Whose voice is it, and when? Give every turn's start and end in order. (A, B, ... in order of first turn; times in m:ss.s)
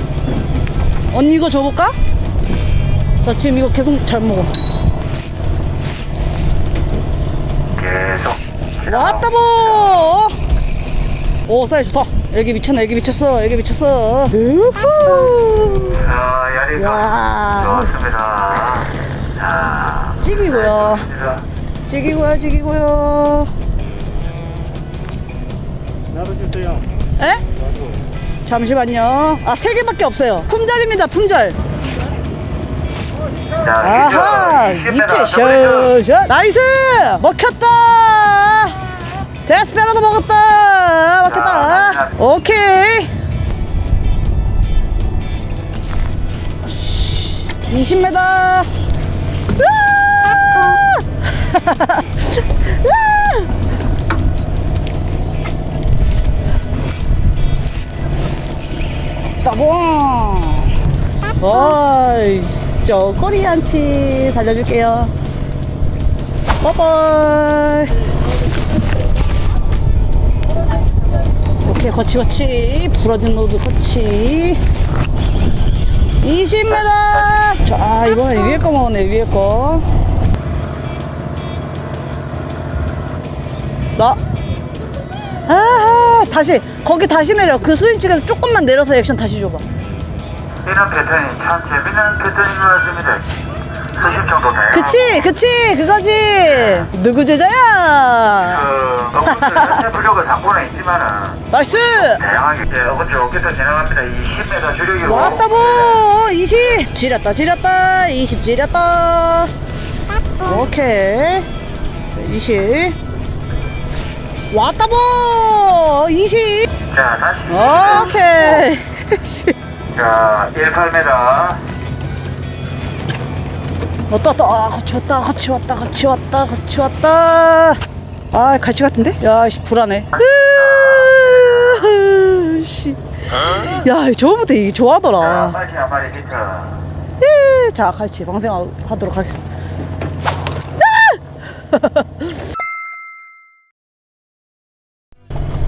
0:01.1-0:01.9 A
0:03.2-0:04.5 A
0:07.7-0:10.1 B
0:08.8-0:10.4 A
0:11.5-0:16.1 A
0:15.9-0:21.4 B
0:16.7-0:17.9 A
0:20.2-0:21.1 A
0:21.9-0:23.5 A
0:28.4-0:31.6 A
0:33.5-0:36.0 B
0:33.8-0:43.1 A
0:41.2-0:42.2 B
0:46.6-0:48.7 A
0:51.2-0:53.5 A
0:59.4-1:00.8 A
1:01.4-1:05.1 A
1:06.6-1:08.1 A
1:11.6-1:14.6 A
1:16.2-1:20.0 A
1:25.4-1:29.6 A
1:30.6-1:35.3 B
1:34.7-1:38.7 A
1:36.5-1:36.9 B
1:38.4-1:46.1 B
1:39.3-1:39.8 A
1:41.5-1:42.2 A
1:45.0-1:49.5 A
1:50.4-1:51.5 A
1:52.1-1:53.0 A
1:54.5-1:56.7 A
1:56.8-1:58.7 B
1:57.5-1:59.5 A
1:59.9-2:01.7 B
2:04.1-2:07.8 A
2:08.3-2:15.6 A
2:10.1-2:12.0 B
2:15.2-2:16.8 B
2:17.2-2:19.4 A
2:20.8-2:21.2 A
2:21.7-2:22.3 A